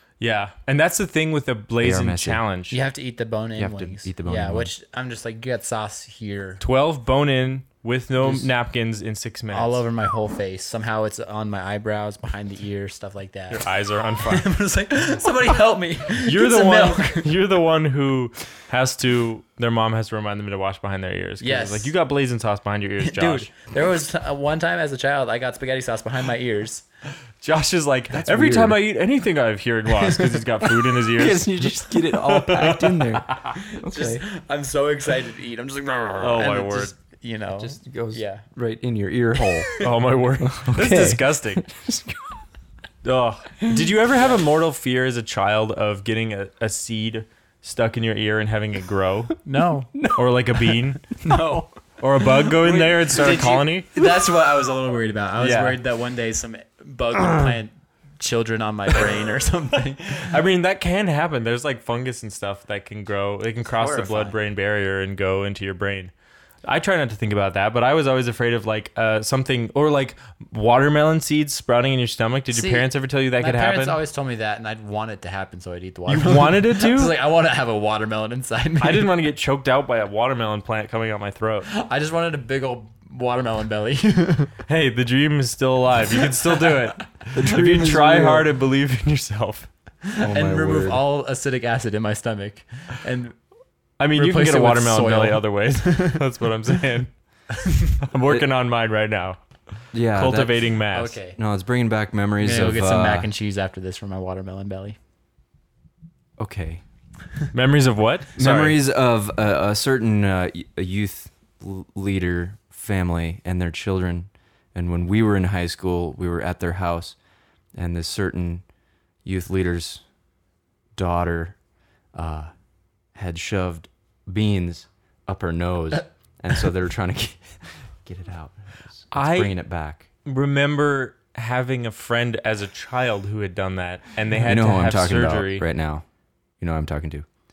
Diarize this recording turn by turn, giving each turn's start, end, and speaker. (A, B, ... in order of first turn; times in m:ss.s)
0:00.2-0:02.8 A
0:01.8-0:02.4 B
0:02.7-0:06.6 C
0:03.6-0:04.7 B
0:06.6-0:09.8 A
0:09.5-0:17.3 C
0:13.5-0:14.5 A
0:16.2-0:23.5 A
0:21.4-0:21.9 C
0:23.0-0:26.9 C
0:27.4-0:33.6 A
0:28.1-0:28.8 B
0:31.1-0:34.2 B
0:33.6-0:38.4 C
0:36.2-0:36.9 A
0:37.6-0:39.7 B
0:39.8-0:41.7 A
0:40.4-0:42.4 B
0:43.0-0:49.4 A
0:43.7-0:44.4 C
0:49.4-0:49.9 C
0:50.0-0:50.8 B
0:50.1-0:51.2 A
0:51.2-0:51.7 C
0:52.0-0:53.9 A
0:52.6-0:53.2 B
0:53.0-1:00.4 C
0:55.4-0:55.8 A
0:57.2-0:57.5 B
1:00.1-1:06.1 A
1:03.6-1:04.4 C
1:06.6-1:14.0 A
1:12.5-1:19.1 C
1:16.1-1:17.2 A
1:18.8-1:21.7 A
1:21.7-1:24.5 C
1:24.7-1:29.7 A
1:27.3-1:28.5 B
1:30.0-1:33.4 C
1:30.2-1:31.0 B
1:34.0-1:41.2 A
1:34.2-1:36.2 C
1:37.7-1:37.9 C
1:39.9-1:40.7 B
1:40.9-1:41.4 C
1:41.4-1:43.3 B
1:42.4-1:45.0 C
1:46.4-1:46.8 B
1:47.5-1:48.8 A
1:48.4-1:57.2 B
1:57.8-1:58.6 B
1:59.2-2:00.0 B
2:01.0-2:01.6 B
2:02.1-2:02.5 B
2:03.2-2:10.1 B
2:09.1-2:09.6 A
2:10.2-2:15.6 A
2:14.4-2:16.0 B
2:16.6-2:17.3 B